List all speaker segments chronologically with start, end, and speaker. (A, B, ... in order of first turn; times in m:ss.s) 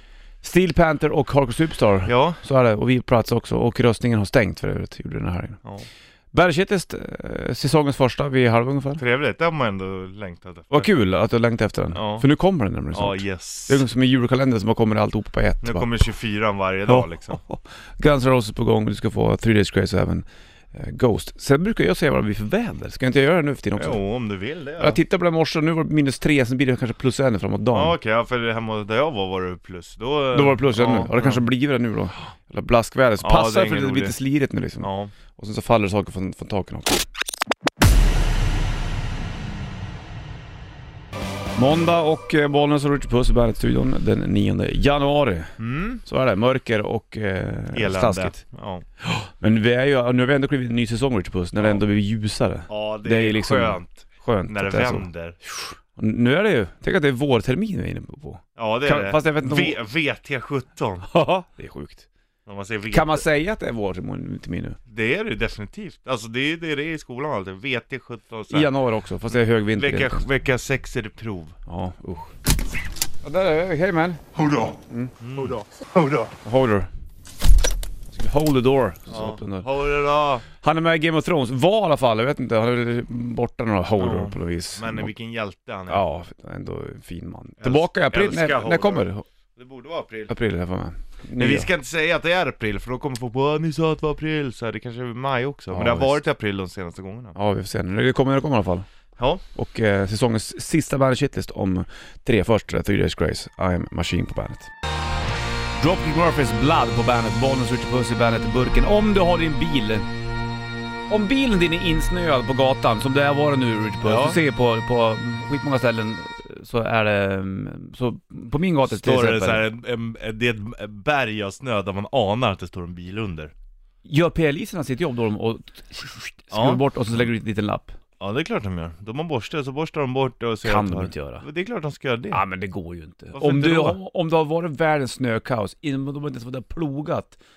0:00.4-0:05.6 A
0:02.0-0:02.4 B
0:06.3-0:09.0 A
0:09.0-0:10.9 B
0:10.7-0:15.9 A
0:11.9-0:12.2 B
0:12.9-0:13.8 B
0:15.6-0:17.4 B
0:16.9-0:24.0 A
0:23.8-0:25.0 B
0:24.8-0:27.9 A
0:27.7-0:31.4 B
0:30.3-0:37.0 A
0:33.2-0:34.1 B
0:34.8-0:35.1 B
0:41.6-0:48.4 A
0:45.6-0:46.0 B
0:47.7-0:48.8 B
0:49.0-0:59.8 A
0:51.6-0:51.8 B
0:52.7-0:55.4 B
0:58.6-1:01.0 B
1:01.0-1:02.1 A
1:02.4-1:03.2 B
1:02.9-1:04.8 A
1:04.9-1:08.7 B
1:08.5-1:10.2 A
1:09.8-1:11.6 B
1:11.6-1:12.3 A
1:13.2-1:15.1 A
1:15.2-1:16.3 B
1:16.4-1:16.9 A
1:18.1-1:19.7 A
1:19.1-1:20.4 B
1:20.6-1:25.1 A
1:24.0-1:26.0 B
1:25.9-1:29.2 A
1:27.6-1:30.3 B
1:30.3-1:31.7 A
1:31.4-1:37.4 B
1:35.7-1:36.2 A
1:37.3-1:38.8 A
1:39.2-1:39.4 B
1:39.5-1:44.7 A
1:45.8-1:50.0 A
1:51.1-1:59.6 A
1:54.0-1:54.4 B
1:58.8-2:03.5 B
2:04.0-2:07.9 A
2:06.5-2:07.2 B
2:08.2-2:12.4 B
2:10.6-2:11.4 A
2:12.3-2:17.4 A
2:13.3-2:14.0 B